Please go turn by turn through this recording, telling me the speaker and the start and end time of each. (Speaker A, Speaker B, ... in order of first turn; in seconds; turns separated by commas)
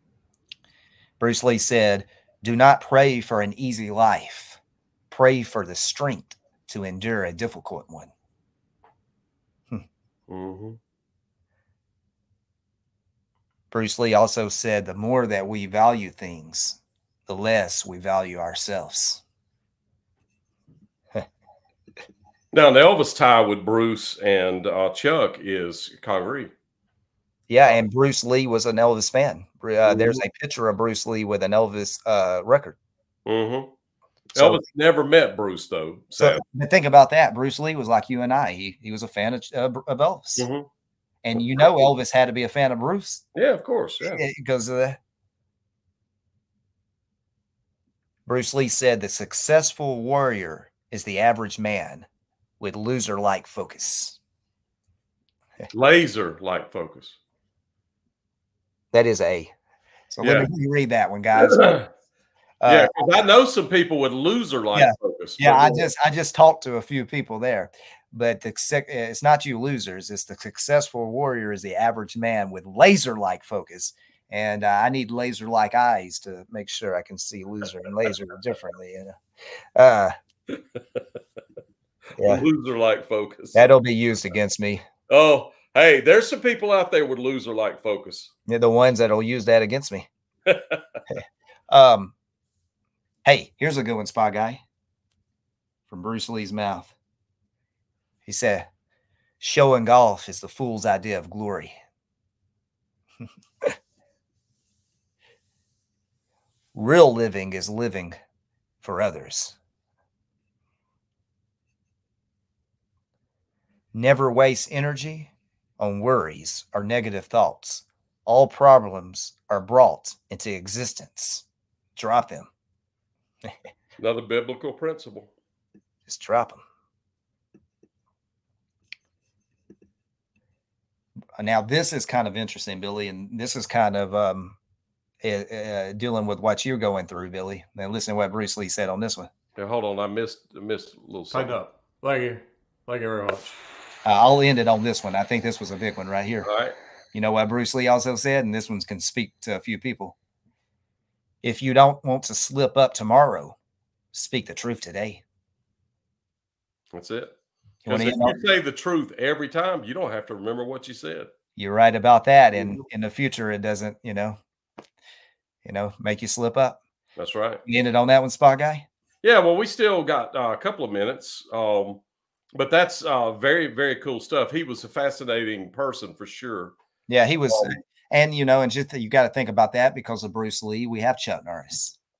Speaker A: 1.2-4.6, Speaker A: 5.1-8.1, Speaker B: 10.3-10.8, Speaker A: 13.7-19.2, Speaker B: 22.5-26.5, Speaker A: 27.5-32.8, Speaker B: 29.8-30.2, Speaker B: 33.2-33.7, Speaker B: 34.3-36.4, Speaker A: 34.4-34.6, Speaker A: 36.2-40.5, Speaker B: 40.4-40.7, Speaker A: 41.2-43.2, Speaker B: 43.3-44.2, Speaker A: 44.1-45.0, Speaker A: 48.2-52.1, Speaker A: 52.6-54.2, Speaker B: 55.7-57.2, Speaker A: 58.9-59.5, Speaker A: 60.1-61.7, Speaker B: 60.2-60.5, Speaker B: 61.3-61.9, Speaker A: 62.6-63.0, Speaker B: 62.6-65.8, Speaker A: 64.7-79.2, Speaker A: 79.8-80.1, Speaker B: 80.5-81.0, Speaker A: 82.2-82.4, Speaker B: 82.2-83.7, Speaker A: 83.5-84.8, Speaker B: 85.1-88.3, Speaker A: 88.5-90.1, Speaker B: 90.5-90.8, Speaker A: 91.7-92.1, Speaker A: 93.2-94.6, Speaker A: 95.9-96.9, Speaker A: 98.2-98.7, Speaker A: 99.4-101.7, Speaker A: 106.7-108.2, Speaker A: 108.8-109.6, Speaker A: 113.9-121.4, Speaker A: 122.0-122.5, Speaker B: 124.0-125.3, Speaker A: 126.1-126.6, Speaker A: 131.4-134.6, Speaker A: 135.2-139.3, Speaker B: 139.6-141.6, Speaker C: 141.4-143.5, Speaker A: 144.0-146.5, Speaker B: 146.4-146.7, Speaker A: 147.1-150.2, Speaker A: 151.4-153.6, Speaker A: 154.1-155.2, Speaker B: 156.9-157.3, Speaker A: 157.8-158.4, Speaker B: 157.9-161.3, Speaker A: 161.6-164.4, Speaker B: 162.5-162.8, Speaker A: 165.6-166.8, Speaker B: 167.2-167.6, Speaker A: 167.7-168.8, Speaker B: 169.2-172.0, Speaker B: 172.5-176.7, Speaker A: 177.1-182.0, Speaker B: 177.5-177.7